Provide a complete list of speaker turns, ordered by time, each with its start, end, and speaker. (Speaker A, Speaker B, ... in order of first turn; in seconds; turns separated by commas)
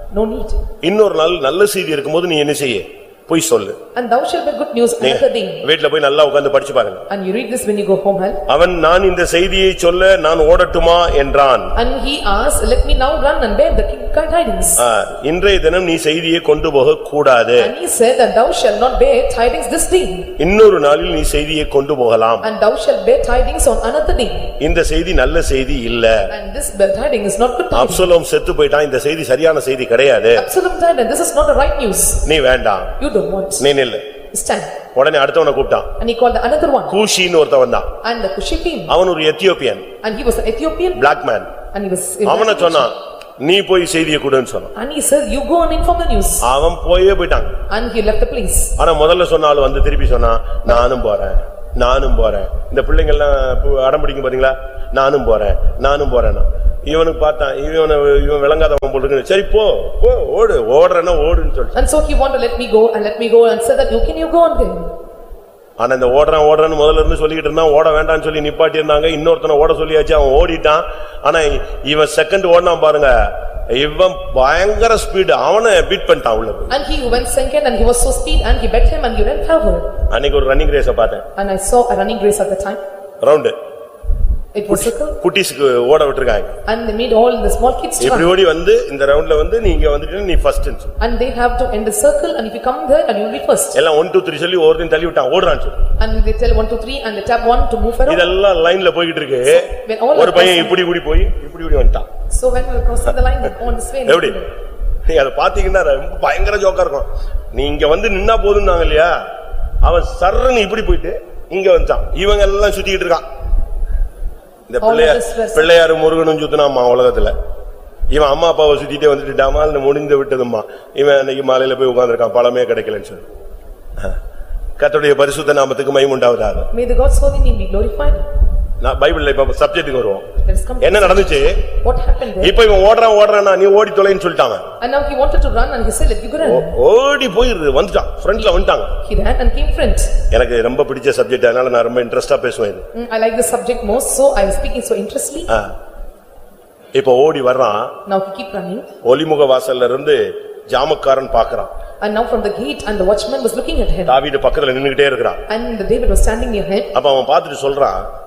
Speaker A: 0.1-0.6, Speaker B: 0.8-3.8, Speaker A: 4.0-5.7, Speaker B: 5.0-7.0, Speaker A: 7.1-8.4, Speaker B: 8.5-11.7, Speaker A: 11.8-14.8, Speaker B: 14.8-17.7, Speaker A: 17.6-20.3, Speaker B: 20.4-22.5, Speaker A: 22.4-24.5, Speaker B: 24.6-26.3, Speaker A: 26.3-28.1, Speaker B: 27.7-30.4, Speaker A: 30.4-32.3, Speaker B: 32.2-32.9, Speaker A: 33.0-33.7, Speaker B: 33.6-34.0, Speaker A: 34.3-34.7, Speaker B: 35.0-35.9, Speaker A: 36.0-37.0, Speaker B: 36.9-37.9, Speaker A: 38.0-38.9, Speaker B: 38.9-39.9, Speaker A: 40.0-41.0, Speaker B: 40.9-41.5, Speaker A: 41.7-42.9, Speaker B: 42.2-44.7, Speaker A: 44.8-46.4, Speaker B: 46.4-47.5, Speaker A: 47.7-48.8, Speaker B: 48.8-61.8, Speaker A: 61.8-64.9, Speaker B: 65.8-76.8, Speaker A: 76.7-79.9, Speaker B: 80.1-81.2, Speaker A: 81.4-82.8, Speaker B: 83.2-83.5, Speaker A: 84.5-85.2, Speaker B: 84.7-86.5, Speaker A: 86.7-88.3, Speaker B: 88.0-90.9, Speaker A: 91.0-93.8, Speaker B: 93.7-95.8, Speaker A: 96.0-98.3, Speaker B: 98.1-102.1, Speaker A: 99.5-100.8, Speaker A: 102.3-104.5, Speaker B: 104.0-104.4, Speaker B: 105.1-109.2, Speaker B: 109.8-113.2, Speaker B: 114.7-117.3, Speaker A: 114.8-115.7, Speaker B: 118.1-123.2, Speaker B: 124.8-126.7, Speaker A: 126.7-128.2, Speaker B: 128.8-130.3, Speaker A: 130.4-132.5, Speaker B: 130.8-131.7, Speaker B: 132.4-134.6, Speaker A: 134.8-136.8, Speaker B: 136.4-138.9, Speaker A: 139.0-140.1, Speaker B: 140.3-142.8, Speaker A: 142.9-145.5, Speaker B: 146.9-147.9, Speaker A: 148.1-148.9, Speaker B: 149.0-151.7, Speaker A: 152.0-154.2, Speaker B: 154.1-155.4, Speaker A: 155.5-156.9, Speaker B: 156.9-158.0